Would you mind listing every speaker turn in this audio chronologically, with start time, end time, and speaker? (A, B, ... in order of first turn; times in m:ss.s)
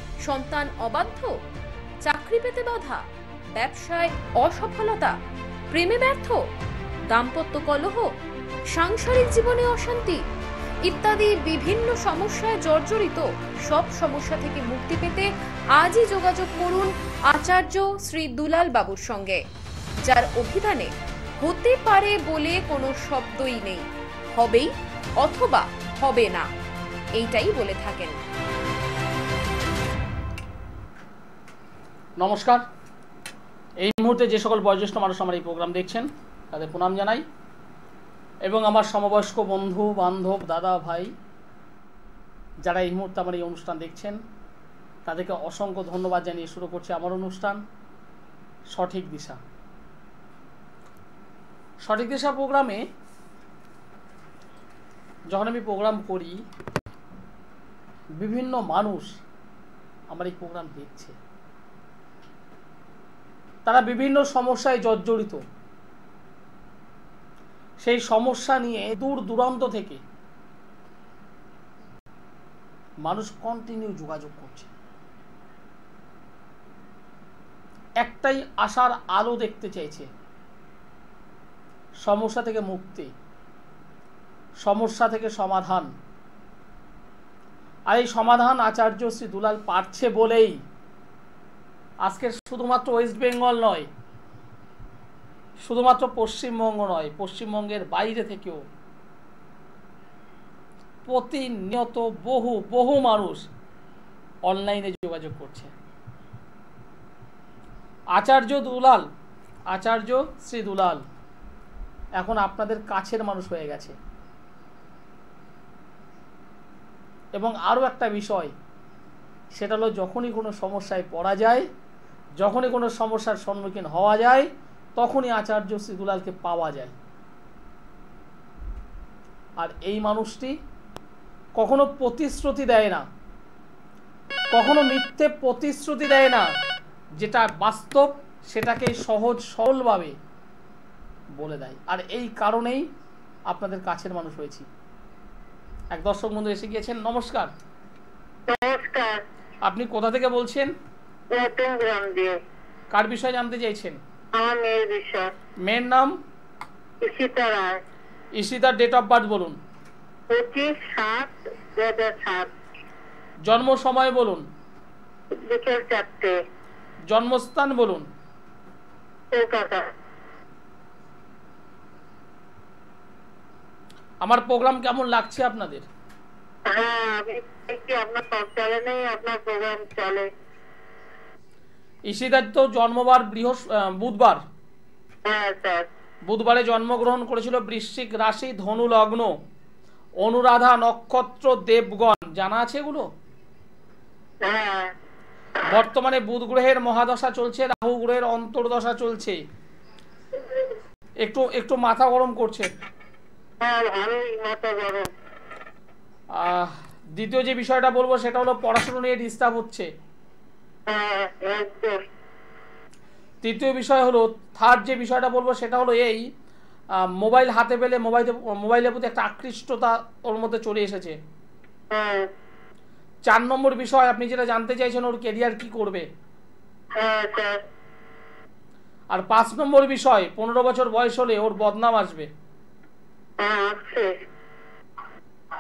0:00.2-0:01.4 A
0:02.0-0:03.0 A
0:03.6-0:05.2 A
0:05.7-0:06.5 A
0:07.1-0:08.1 A
0:08.7-0:10.2 A
0:10.8-0:19.4 A
0:20.0-0:26.5 A
0:27.2-0:28.2 A
0:32.2-0:32.6 B
0:33.8-0:37.2 B
0:38.5-0:41.1 B
0:42.6-0:44.2 B
0:45.1-0:47.6 B
0:48.7-0:49.4 B
0:51.8-0:52.8 B
0:55.3-0:56.4 B
0:58.2-0:59.1 B
1:00.1-1:01.2 B
1:03.6-1:05.4 B
1:07.8-1:10.0 B
1:13.0-1:14.7 B
1:18.0-1:20.1 B
1:22.0-1:23.1 B
1:24.6-1:25.9 B
1:27.9-1:30.6 B
1:32.1-1:33.9 B
1:35.6-1:38.6 B
1:41.1-1:43.5 B
1:44.5-1:45.7 B
1:48.2-1:49.1 B
1:49.7-1:51.0 B
1:52.2-1:54.0 B
1:57.4-1:58.5 B
1:59.6-2:01.7 B
2:02.4-2:07.0 B
2:09.6-2:10.6 B
2:11.6-2:13.0 B
2:14.5-2:16.5 B
2:17.2-2:20.2 B
2:21.4-2:22.9 B
2:23.5-2:24.7 B
2:25.9-2:27.5 B
2:28.5-2:29.2 C
2:29.7-2:30.7 B
2:31.3-2:32.4 C
2:32.9-2:34.0 B
2:34.3-2:35.3 C
2:35.7-2:36.2 B
2:37.0-2:37.8 C
2:38.4-2:39.6 B
2:40.3-2:42.5 C
2:43.5-2:44.4 B
2:45.4-2:46.4 C
2:47.1-2:48.1 B
2:49.3-2:49.9 C
2:54.2-2:55.9 B
2:56.7-3:00.3 C
3:02.1-3:04.4 B
3:05.2-3:05.9 C
3:06.3-3:09.3 B
3:10.2-3:13.1 B
3:14.4-3:14.9 C
3:15.6-3:19.4 B
3:21.2-3:22.7 B
3:23.6-3:25.1 C
3:26.4-3:29.9 B
3:30.9-3:32.0 C
3:33.4-3:36.3 B
3:37.0-3:41.2 B
3:41.9-3:42.3 C
3:43.3-3:46.1 B
3:47.0-3:47.6 C
3:49.1-3:52.3 B
3:53.4-3:54.2 C